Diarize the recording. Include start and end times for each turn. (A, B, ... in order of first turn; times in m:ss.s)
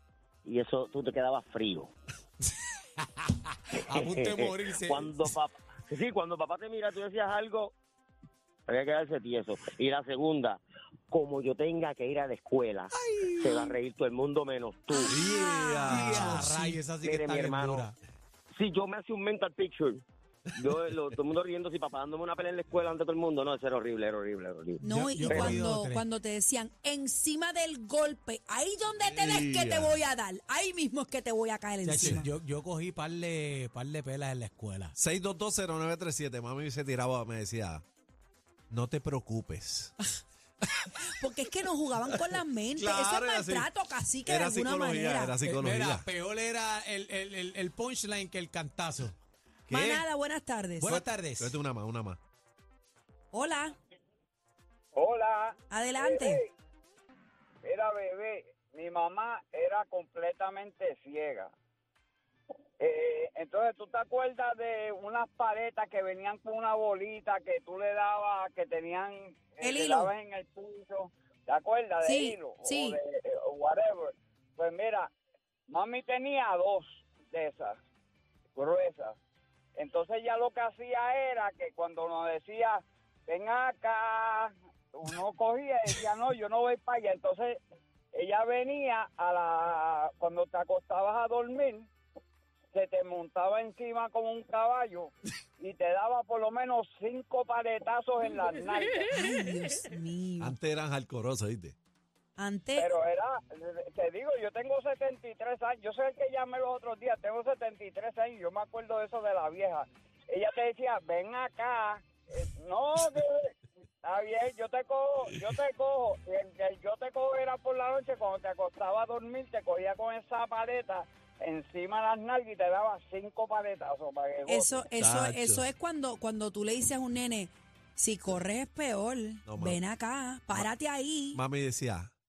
0:00.4-0:01.9 A
0:03.2-0:05.3 B
0:03.9-0:07.8 A
0:08.7-0:15.2 A
0:13.0-0:13.8 B
0:15.0-0:16.8 C
0:15.1-0:16.5 D
0:15.9-0:18.0 B
0:17.0-0:17.9 A
0:18.5-0:20.0 A
0:20.6-0:25.6 A
0:24.8-0:26.0 B
0:24.8-0:32.3 D
0:29.0-0:30.0 C
0:31.8-0:35.0 B
0:32.0-0:32.2 C
0:35.0-0:37.8 C
0:38.7-0:40.0 C
0:40.6-0:40.9 C
0:41.0-0:45.4 D
0:42.8-0:43.7 C
0:44.2-0:46.1 C
0:45.4-0:49.2 B
0:49.7-0:50.1 C
0:49.7-0:51.0 D
0:50.8-0:51.5 B
0:50.8-0:52.2 C
0:53.3-0:53.8 D
0:55.0-0:56.5 E
0:55.7-0:56.4 D
0:57.6-1:01.5 E
1:02.8-1:15.1 E
1:09.6-1:10.1 D
1:12.0-1:13.0 D
1:15.7-1:17.8 E
1:18.6-1:19.2 E
1:19.8-1:27.6 E
1:28.1-1:31.9 E
1:32.7-1:39.1 E
1:39.1-1:40.6 D
1:40.4-1:41.8 C
1:42.4-1:42.9 D
1:42.8-2:04.9 E
2:04.5-2:11.4 D
2:05.0-2:05.7 C
2:09.5-2:09.8 C
2:11.3-2:12.1 C